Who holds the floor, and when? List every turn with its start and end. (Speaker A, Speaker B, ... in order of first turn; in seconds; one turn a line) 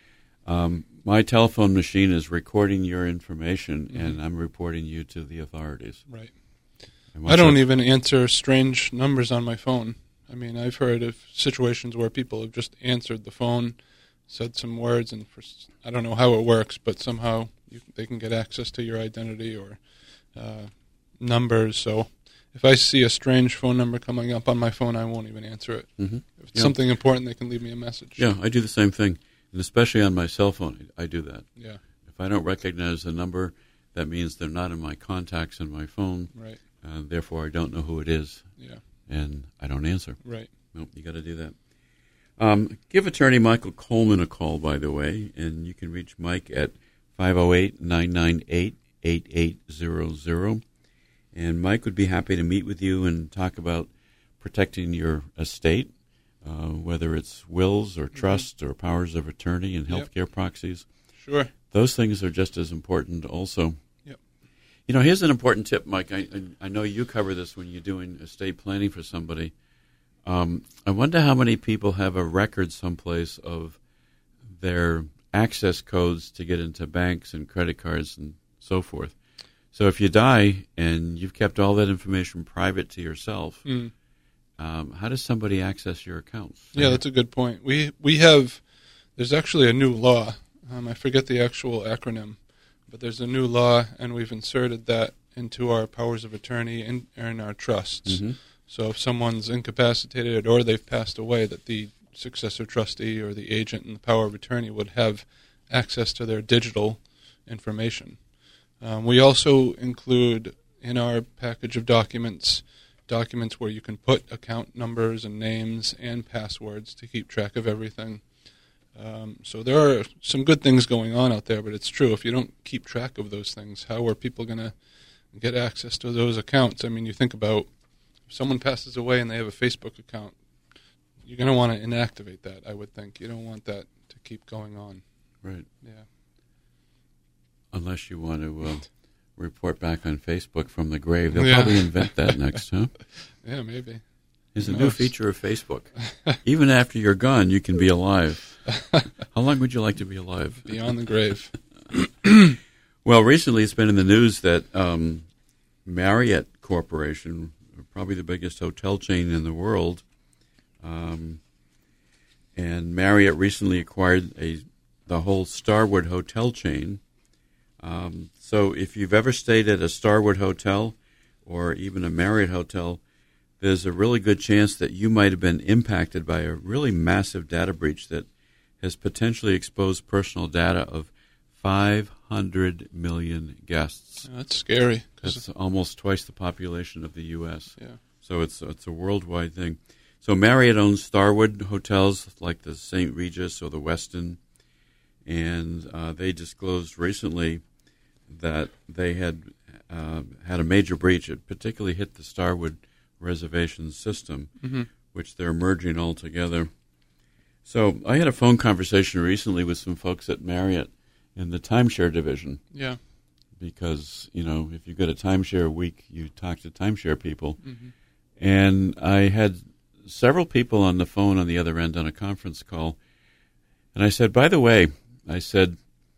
Speaker A: 0.5-6.1
Speaker B: 3.9-4.2
Speaker B: 6.1-28.2
Speaker A: 7.1-7.7
Speaker A: 26.0-26.8
Speaker A: 28.2-41.6
Speaker B: 36.3-36.6
Speaker B: 38.6-38.8
Speaker B: 40.2-40.5
Speaker A: 42.4-50.6
Speaker A: 51.3-60.9
Speaker B: 58.2-58.4
Speaker B: 61.2-61.5
Speaker A: 61.7-63.8
Speaker A: 64.9-69.5
Speaker A: 70.2-73.8
Speaker A: 74.6-79.2
Speaker A: 79.7-83.7
Speaker B: 83.7-83.9
Speaker A: 84.6-87.0
Speaker B: 86.7-118.4
Speaker A: 98.0-98.4
Speaker B: 118.9-124.8
Speaker B: 125.3-127.7
Speaker B: 128.2-130.4
Speaker B: 131.2-135.0
Speaker B: 135.8-136.1
Speaker A: 137.7-142.9
Speaker B: 141.3-142.4
Speaker B: 143.1-145.2
Speaker A: 144.5-150.8
Speaker B: 150.7-152.4
Speaker A: 153.0-155.3
Speaker A: 155.8-160.1
Speaker A: 160.8-161.4
Speaker A: 162.6-167.0
Speaker A: 167.8-173.0
Speaker A: 173.6-178.3
Speaker A: 178.8-184.3
Speaker B: 184.2-185.4
Speaker A: 185.2-194.4
Speaker A: 195.2-197.6
Speaker A: 198.3-206.7
Speaker B: 204.6-204.9
Speaker A: 207.6-212.7
Speaker B: 212.7-213.0
Speaker A: 213.6-217.6
Speaker B: 217.6-217.9
Speaker A: 218.4-223.0
Speaker A: 223.9-225.8